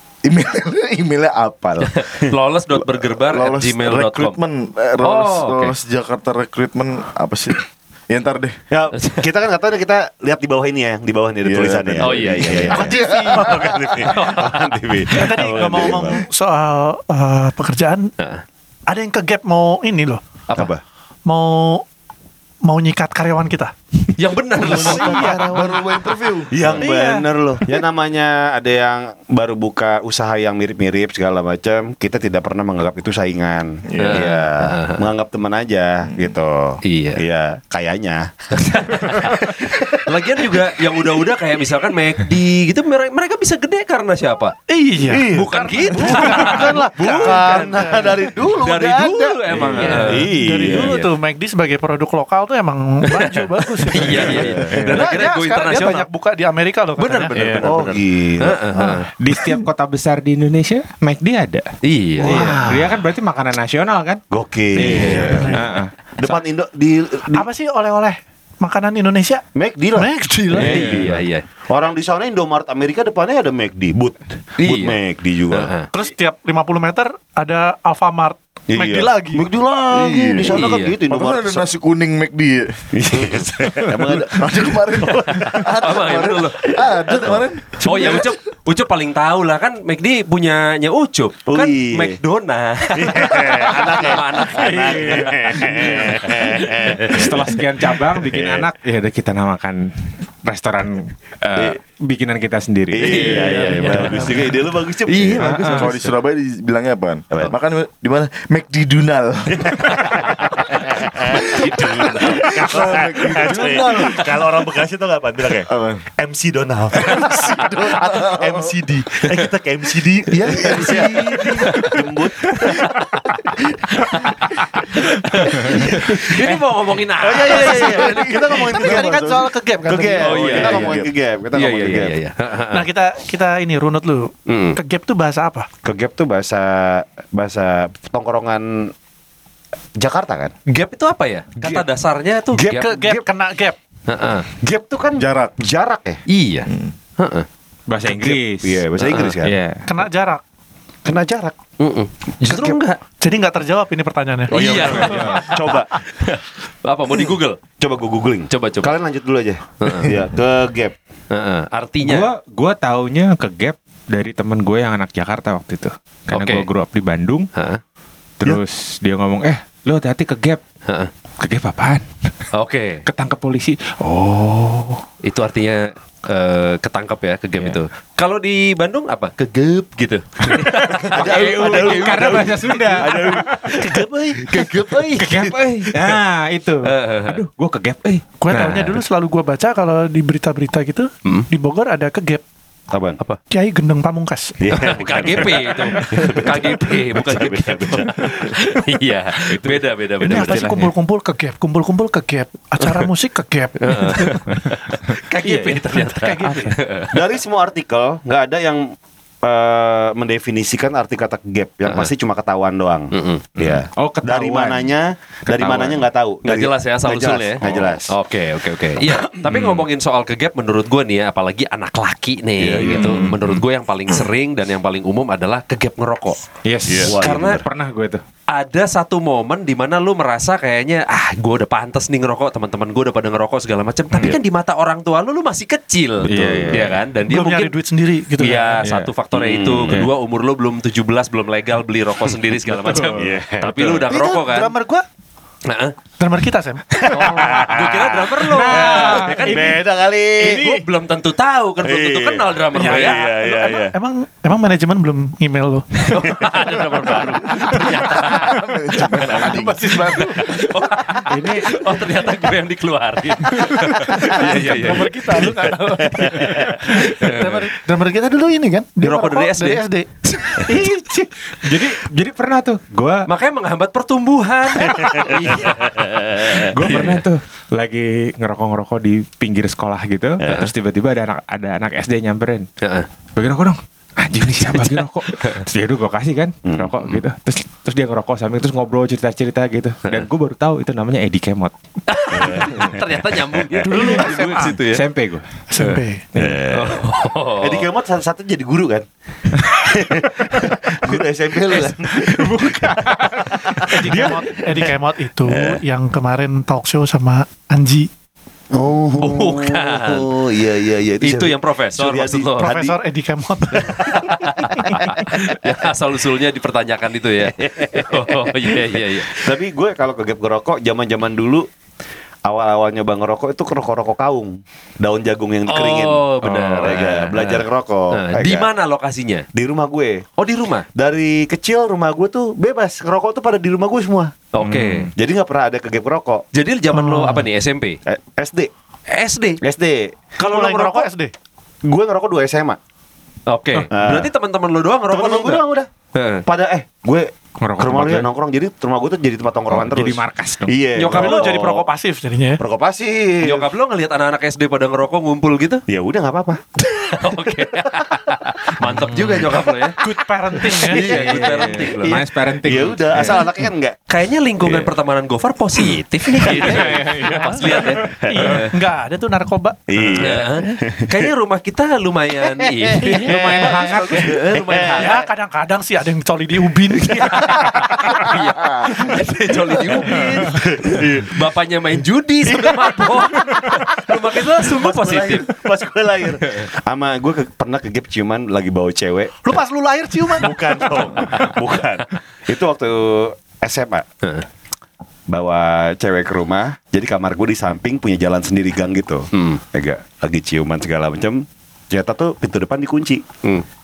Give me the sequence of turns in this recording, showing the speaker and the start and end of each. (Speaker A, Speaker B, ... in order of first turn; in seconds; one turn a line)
Speaker A: 0.2-2.0
Speaker B: 1.8-4.3
Speaker A: 2.7-8.6
Speaker B: 5.0-5.7
Speaker C: 8.7-16.2
Speaker B: 9.0-9.3
Speaker A: 11.4-13.7
Speaker B: 12.0-12.8
Speaker D: 12.7-13.6
Speaker B: 14.0-14.8
Speaker D: 15.1-18.1
Speaker D: 18.9-20.2
Speaker C: 20.6-20.8
Speaker D: 21.3-21.8
Speaker D: 22.6-23.7
Speaker B: 24.1-25.3
Speaker C: 24.6-25.8
Speaker D: 24.6-26.0
Speaker A: 25.2-26.8
Speaker C: 26.5-40.5
Speaker D: 26.7-27.8
Speaker A: 33.9-34.3
Speaker B: 34.0-35.0
Speaker B: 36.8-37.2
Speaker B: 38.6-44.5
Speaker D: 44.7-48.1
Speaker C: 45.1-50.9
Speaker B: 45.3-51.1
Speaker D: 49.7-57.3
Speaker B: 53.1-56.0
Speaker C: 54.1-54.8
Speaker E: 54.4-55.0
Speaker B: 57.0-59.1
Speaker E: 57.3-58.0
Speaker C: 57.5-58.6
Speaker D: 58.7-59.6
Speaker E: 59.2-61.7
Speaker B: 61.8-62.5
Speaker C: 62.2-63.0
Speaker E: 62.2-64.2
Speaker C: 64.3-65.6
Speaker E: 64.7-65.9
Speaker B: 64.8-65.4
Speaker D: 65.1-65.7
Speaker C: 66.2-67.5
Speaker D: 67.3-70.9
Speaker C: 69.5-75.7
Speaker B: 70.5-71.4
Speaker E: 70.6-71.1
Speaker B: 74.6-75.0
Speaker B: 75.5-75.9
Speaker D: 75.9-79.5
Speaker C: 78.7-81.7
Speaker A: 79.9-83.0
Speaker B: 80.5-81.0
Speaker C: 82.9-85.8
Speaker A: 84.3-88.3
Speaker B: 85.8-97.2
Speaker C: 91.5-92.2
Speaker C: 93.0-98.7
Speaker E: 94.5-95.8
Speaker E: 97.1-104.3
Speaker C: 102.9-106.1
Speaker B: 103.0-104.6
Speaker A: 105.1-110.4
Speaker E: 105.4-105.9
Speaker C: 109.5-124.8
Speaker A: 111.3-114.4
Speaker B: 111.8-112.4
Speaker A: 115.7-116.0
Speaker A: 117.0-118.7
Speaker A: 120.4-121.8
Speaker B: 120.6-123.0
Speaker B: 124.0-128.1
Speaker C: 125.4-126.6
Speaker C: 127.2-129.1
Speaker D: 127.4-130.7
Speaker A: 127.7-129.5
Speaker C: 129.8-132.2
Speaker B: 130.2-132.9
Speaker A: 130.6-131.1
Speaker D: 132.7-135.7
Speaker B: 134.5-134.8
Speaker C: 135.8-138.9
Speaker C: 140.0-140.5
Speaker B: 140.7-142.8
Speaker C: 141.6-141.8
Speaker C: 142.5-143.2
Speaker D: 142.6-143.8
Speaker B: 144.1-144.4
Speaker C: 144.6-146.2
Speaker A: 145.2-145.6
Speaker B: 146.3-147.5
Speaker A: 146.7-146.9
Speaker E: 147.9-148.9
Speaker C: 148.0-149.5
Speaker B: 149.0-149.3
Speaker E: 149.4-149.8
Speaker D: 149.8-150.4
Speaker C: 151.0-151.6
Speaker B: 151.8-153.0
Speaker C: 152.4-152.8
Speaker D: 153.2-154.5
Speaker C: 154.5-155.9
Speaker B: 154.5-157.6
Speaker E: 154.7-155.5
Speaker C: 157.8-160.9
Speaker B: 158.5-159.0
Speaker B: 159.8-160.1
Speaker B: 161.3-162.3
Speaker E: 162.0-167.5
Speaker B: 166.3-166.7
Speaker B: 167.5-167.8
Speaker E: 168.4-170.6
Speaker E: 171.4-172.0
Speaker B: 172.5-173.0
Speaker E: 173.0-175.0
Speaker B: 175.2-183.4
Speaker C: 180.8-185.6
Speaker E: 181.0-183.7
Speaker D: 183.8-184.3
Speaker B: 184.4-185.4
Speaker E: 185.2-189.0
Speaker B: 186.8-187.4
Speaker D: 188.4-192.4
Speaker C: 192.9-193.2
Speaker D: 193.5-194.6
Speaker C: 194.6-198.5
Speaker B: 194.7-200.6
Speaker E: 196.0-196.3
Speaker E: 199.4-200.9
Speaker D: 200.2-206.8
Speaker B: 203.8-207.2
Speaker E: 204.5-204.8
Speaker C: 207.1-218.1
Speaker B: 211.8-212.1
Speaker B: 213.1-213.8
Speaker E: 213.7-214.9
Speaker E: 215.5-216.1
Speaker B: 216.4-226.4
Speaker E: 219.5-219.8
Speaker C: 222.6-223.6
Speaker E: 222.8-223.6
Speaker E: 226.6-228.2
Speaker C: 226.9-227.6
Speaker B: 227.1-227.6
Speaker B: 228.5-237.7
Speaker C: 236.2-236.8
Speaker E: 236.2-237.0
Speaker D: 237.3-238.8
Speaker B: 238.4-244.7
Speaker E: 238.8-239.1
Speaker C: 239.3-240.0
Speaker E: 239.8-240.1
Speaker E: 242.7-243.3
Speaker C: 243.2-244.1
Speaker D: 244.1-245.0
Speaker B: 245.7-245.9
Speaker D: 246.2-247.7
Speaker C: 247.0-250.6
Speaker B: 247.1-249.5
Speaker E: 248.5-249.5
Speaker D: 248.7-249.8
Speaker D: 250.4-250.8
Speaker B: 250.4-253.2
Speaker C: 251.8-253.9
Speaker D: 252.7-256.1
Speaker B: 256.1-258.6
Speaker C: 256.1-257.0
Speaker A: 258.2-260.4
Speaker D: 259.3-260.8
Speaker B: 260.4-266.2
Speaker C: 261.3-261.7
Speaker D: 263.5-271.1
Speaker C: 266.1-266.7
Speaker B: 266.8-267.6
Speaker B: 269.0-270.9
Speaker E: 270.7-273.3
Speaker B: 273.3-277.2
Speaker C: 274.8-275.7
Speaker E: 276.6-282.6
Speaker B: 282.8-283.1
Speaker E: 283.4-291.7
Speaker B: 284.8-285.6
Speaker C: 286.7-286.9
Speaker B: 292.1-295.0
Speaker C: 292.3-293.0
Speaker C: 293.7-294.1
Speaker D: 293.8-294.7
Speaker E: 294.5-295.5
Speaker D: 295.7-296.2
Speaker E: 296.3-296.6
Speaker C: 296.4-299.1
Speaker B: 296.7-297.9
Speaker C: 299.6-304.9
Speaker E: 302.1-303.4
Speaker D: 303.4-308.1
Speaker C: 305.4-305.8
Speaker C: 308.7-312.9
Speaker B: 309.2-310.3
Speaker B: 311.2-312.7
Speaker D: 312.6-315.1
Speaker C: 313.7-315.9
Speaker B: 314.4-319.5
Speaker C: 317.6-321.6
Speaker C: 322.4-328.7
Speaker B: 325.7-329.4
Speaker C: 329.5-330.2
Speaker B: 330.4-330.9
Speaker C: 330.9-334.3
Speaker B: 334.5-335.1
Speaker E: 334.6-335.1
Speaker C: 335.1-336.4
Speaker B: 336.5-338.0
Speaker D: 336.9-337.5
Speaker C: 338.1-338.7
Speaker B: 339.1-339.6
Speaker C: 339.6-340.2
Speaker B: 340.4-341.1
Speaker D: 340.4-341.3
Speaker C: 341.8-342.8
Speaker B: 343.5-346.4
Speaker C: 343.9-344.3
Speaker C: 345.1-345.9
Speaker C: 346.4-351.5
Speaker E: 347.6-348.3
Speaker E: 349.7-350.8
Speaker B: 350.9-351.8
Speaker D: 351.1-352.6
Speaker C: 352.6-353.6
Speaker B: 353.4-355.8
Speaker C: 355.9-356.6
Speaker B: 356.9-360.0
Speaker C: 357.4-359.9
Speaker D: 360.0-361.1
Speaker B: 360.6-362.2
Speaker C: 360.7-364.0
Speaker E: 361.0-363.6
Speaker B: 364.1-368.7
Speaker C: 364.6-364.9
Speaker E: 366.4-368.6
Speaker C: 366.4-366.9
Speaker D: 366.9-369.8
Speaker C: 369.9-371.2
Speaker B: 370.2-375.3
Speaker D: 370.4-370.8
Speaker C: 372.6-375.1
Speaker D: 373.0-378.2
Speaker E: 373.0-374.4
Speaker C: 377.1-381.4
Speaker B: 377.2-385.5
Speaker C: 382.4-389.4
Speaker B: 386.2-386.7
Speaker D: 389.4-390.5
Speaker C: 390.3-394.1
Speaker C: 395.3-403.2
Speaker B: 399.3-399.6